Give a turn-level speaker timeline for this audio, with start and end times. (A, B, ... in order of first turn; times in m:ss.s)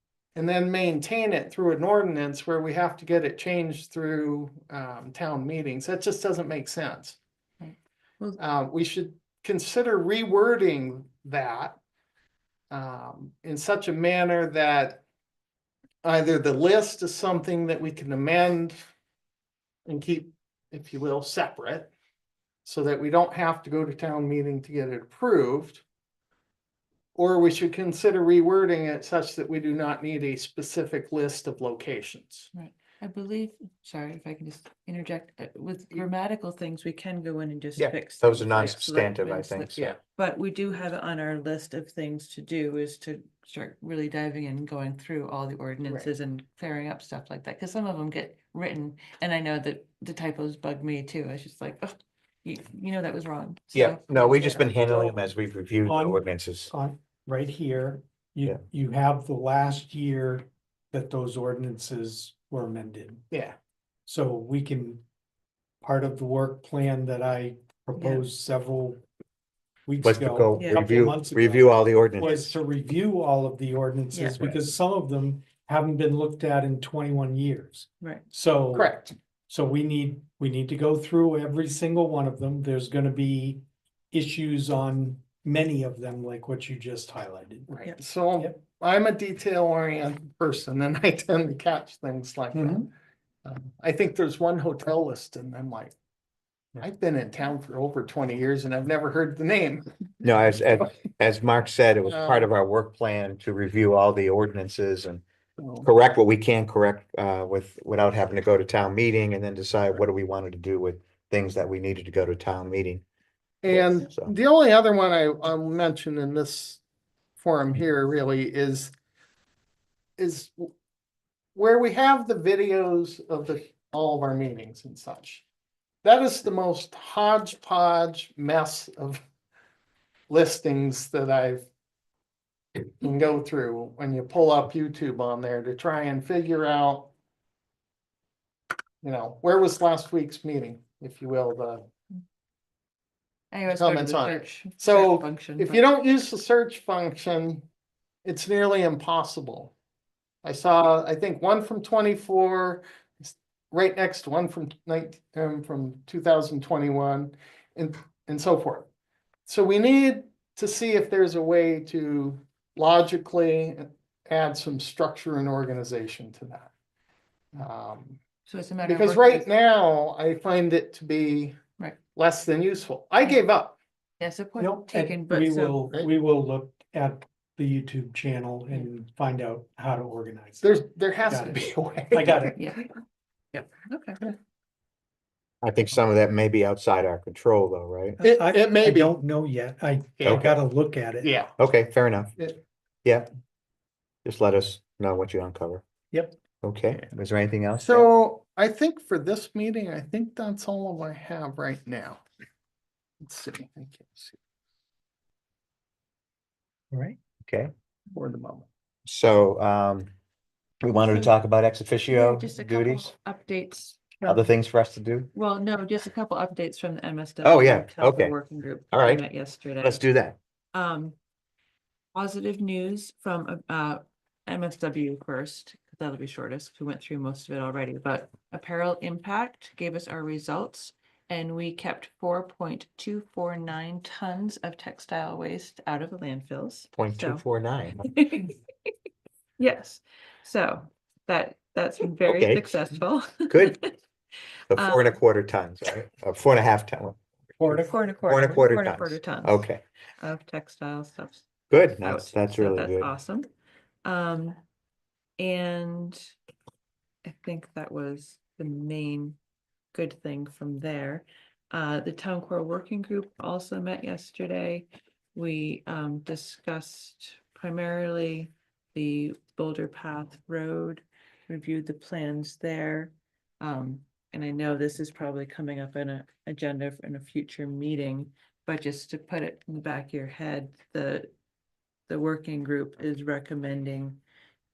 0:00.3-0:07.2 A
0:07.6-0:08.4 B
0:08.4-0:11.8 A
0:12.7-0:15.0 A
0:16.0-0:18.8 A
0:19.8-0:21.9 A
0:22.6-0:25.8 A
0:27.2-0:32.5 A
0:32.5-0:55.2 B
0:37.8-0:40.0 C
0:53.7-0:56.7 C
0:55.8-1:03.2 D
1:03.3-1:03.6 A
1:04.1-1:05.0 D
1:05.8-1:09.0 D
1:08.0-1:08.3 B
1:09.9-1:27.7 D
1:10.0-1:12.5 C
1:10.6-1:10.8 B
1:14.1-1:14.5 B
1:18.7-1:19.1 A
1:27.7-1:32.9 A
1:32.5-1:32.9 D
1:33.4-1:35.9 A
1:36.8-1:39.9 A
1:40.2-1:45.2 C
1:42.1-1:42.4 A
1:45.6-1:45.9 A
1:45.8-1:53.0 C
1:53.6-1:56.8 A
1:53.7-1:54.3 C
1:57.4-1:58.9 A
2:00.2-2:00.7 A
2:01.5-2:05.4 A
2:06.0-2:09.2 A
2:10.3-2:11.7 A
2:12.8-2:17.1 A
2:19.0-2:21.9 A
2:23.5-2:25.8 B
2:23.7-2:27.6 A
2:28.2-2:29.7 A
2:30.4-2:38.9 A
2:39.4-2:46.7 A
2:47.5-2:48.2 A
2:48.4-2:49.5 B
2:48.8-2:51.6 A
2:52.1-2:53.8 A
2:54.2-2:55.8 B
2:54.6-3:02.5 D
3:00.6-3:02.5 A
3:02.5-3:03.0 B
3:03.5-3:04.3 B
3:05.6-3:08.2 C
3:08.2-3:09.2 A
3:08.2-3:11.3 D
3:10.2-3:10.5 C
3:11.2-3:11.5 A
3:11.6-3:12.3 C
3:14.2-3:15.8 C
3:16.6-3:18.1 C
3:17.8-3:22.2 A
3:23.2-3:24.4 A
3:26.9-3:27.2 D
3:27.4-3:27.7 C
3:28.1-3:28.7 A
3:29.0-3:30.1 C
3:30.8-3:33.1 C
3:32.1-3:34.5 B
3:34.2-3:35.3 C
3:35.3-3:40.0 B
3:37.4-3:38.3 C
3:38.9-3:39.2 C
3:39.8-3:40.4 C
3:40.7-3:41.2 B
3:42.1-3:57.4 B
3:57.0-3:58.0 C
3:58.0-3:58.9 B
3:59.6-4:03.9 B
4:02.3-4:02.6 C
4:03.5-4:03.8 C
4:04.7-4:09.8 C
4:04.7-4:05.2 B
4:07.6-4:08.4 D
4:07.7-4:09.6 B
4:10.2-4:11.5 B
4:11.7-4:13.1 C
4:12.0-4:13.5 B
4:14.0-4:14.6 B
4:15.4-4:16.2 B
4:17.2-4:19.4 B
4:19.9-4:41.3 B
4:42.1-4:44.2 B